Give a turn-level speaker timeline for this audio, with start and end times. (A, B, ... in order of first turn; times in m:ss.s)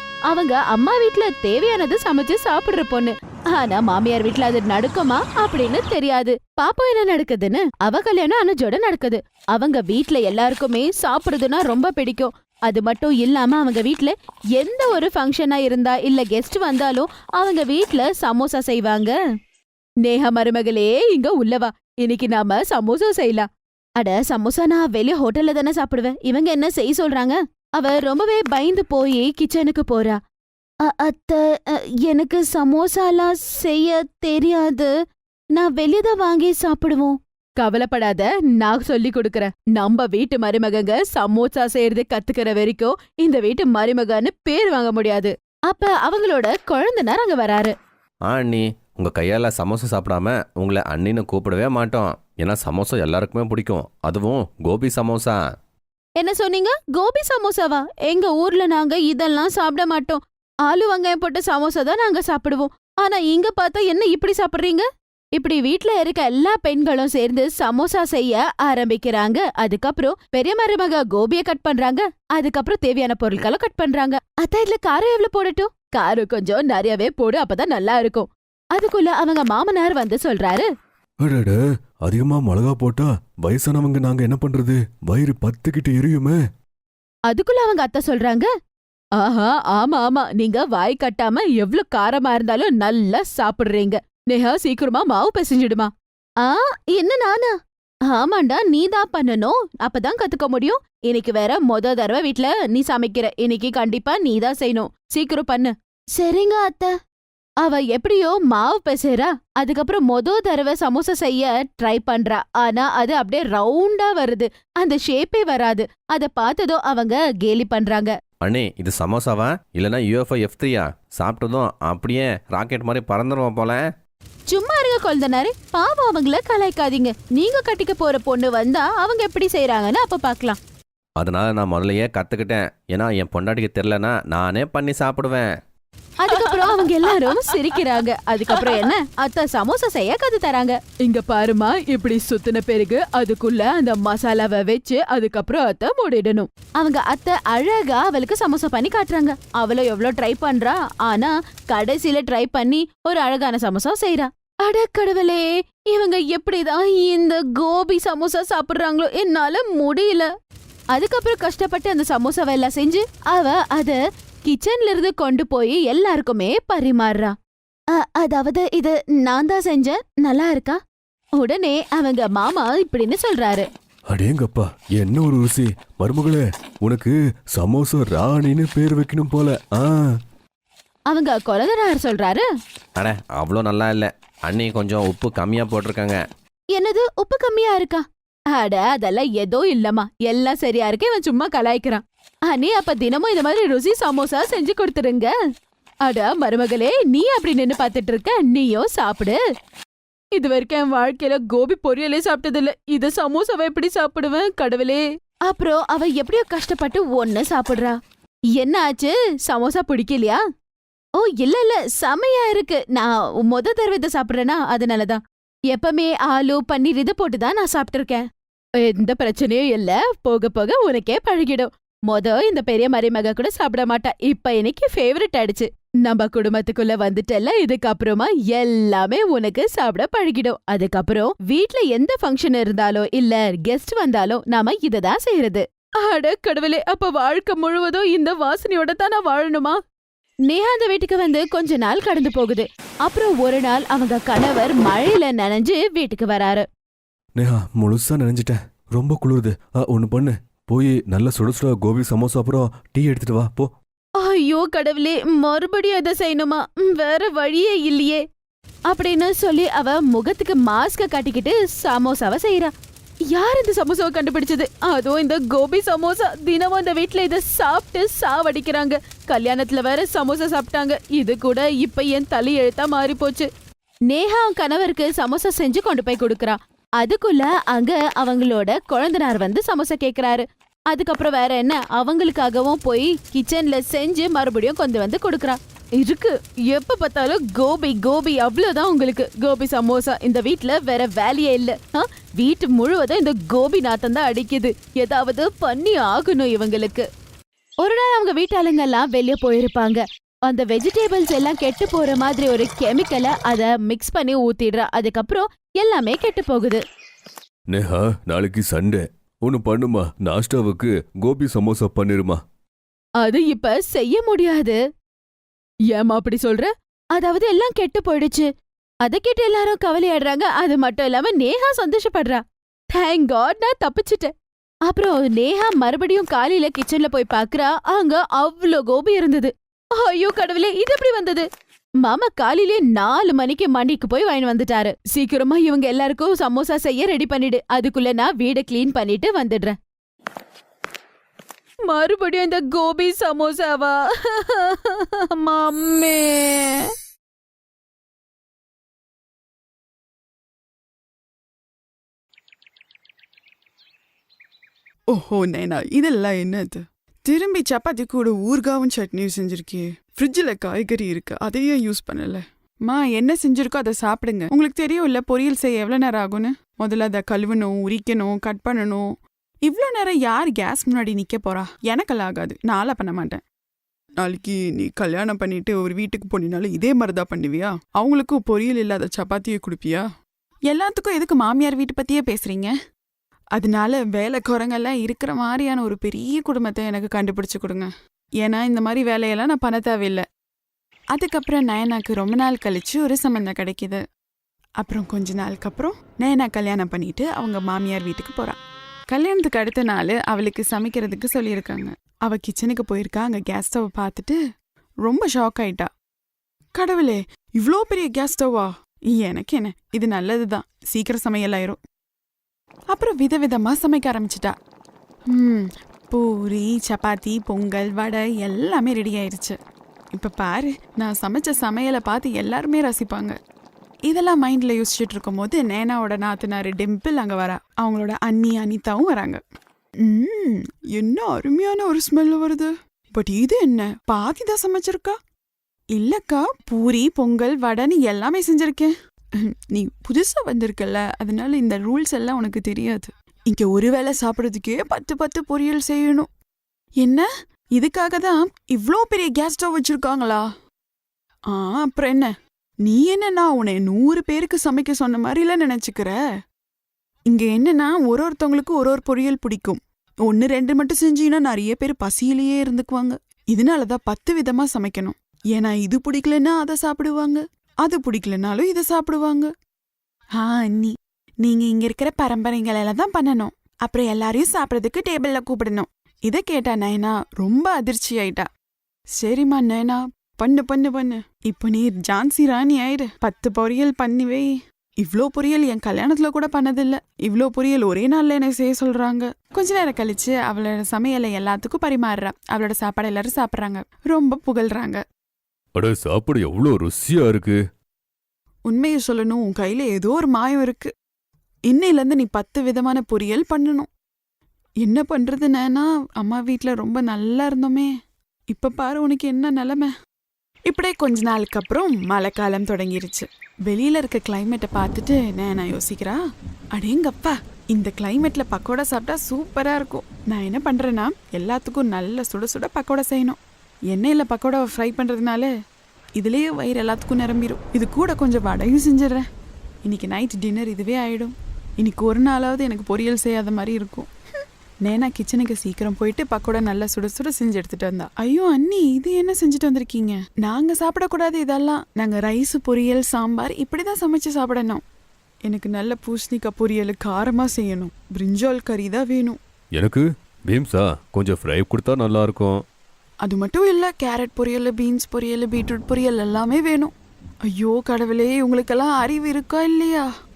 0:00.3-0:19.1 A
0:20.0-0:23.5 A
0:24.0-0:30.2 A
0:30.8-0:34.9 A
0:35.5-0:47.7 A
0:48.2-0:55.4 B
0:56.2-1:04.8 A
1:05.4-1:20.7 A
1:21.2-1:26.4 C
1:27.3-1:28.5 A
1:29.2-1:37.5 A
1:38.1-1:46.9 A
1:47.6-1:58.1 A
1:58.4-2:03.8 B
2:04.5-2:10.6 A
2:11.2-2:15.4 B
2:16.2-2:40.3 A
2:40.9-2:47.3 A
2:47.9-2:50.8 A
2:51.4-2:53.6 A
2:54.1-3:00.0 C
3:01.1-3:02.4 A
3:03.0-3:06.2 B
3:06.7-3:08.0 A
3:08.5-3:15.3 A
3:16.0-3:19.4 A
3:20.4-3:27.9 A
3:28.5-3:30.4 A
3:31.2-3:38.2 A
3:38.8-3:59.8 A
4:00.5-4:06.6 A
4:07.4-4:13.7 C
4:14.2-4:18.2 A
4:18.9-4:22.7 A
4:23.3-4:33.5 A
4:34.1-4:57.0 A
4:57.8-5:06.8 A
5:07.7-5:12.4 C
5:13.2-5:14.8 A
5:15.9-5:18.5 A
5:19.0-5:22.4 A
5:22.9-5:24.3 A
5:24.9-5:31.4 A
5:32.0-5:39.8 A
5:41.9-5:46.9 A
5:55.1-6:09.0 D
6:09.6-6:13.4 D
6:14.2-6:20.0 D
6:20.7-6:22.7 D
6:23.6-6:27.9 D
6:28.4-6:30.2 D
6:31.1-6:34.0 D
6:34.8-6:38.6 D
6:39.1-6:44.4 D
6:45.0-6:45.9 D
6:46.8-6:51.8 D
6:52.9-6:54.5 D
6:55.3-6:59.6 D
7:00.1-7:03.3 D
7:04.1-7:09.4 D
7:10.0-7:15.2 D
7:15.9-7:18.9 D
7:19.7-7:26.3 D
7:27.0-7:30.4 D
7:31.5-7:32.3 D
7:32.8-7:36.2 D
7:37.3-7:49.5 D
7:50.4-7:58.5 D
7:59.2-8:04.5 D
8:05.0-8:15.0 D
8:15.8-8:17.6 C
8:18.7-8:20.9 D
8:21.7-8:23.9 D
8:24.8-8:27.9 D
8:28.5-8:29.9 D
8:30.7-8:36.2 D
8:36.7-8:43.4 D
8:43.9-8:45.5 D
8:46.2-8:49.2 D
8:49.8-8:54.1 D
8:54.8-9:04.8 D
9:05.5-9:09.4 D
9:09.8-9:12.6 C
9:13.2-9:16.9 D
9:17.5-9:20.1 D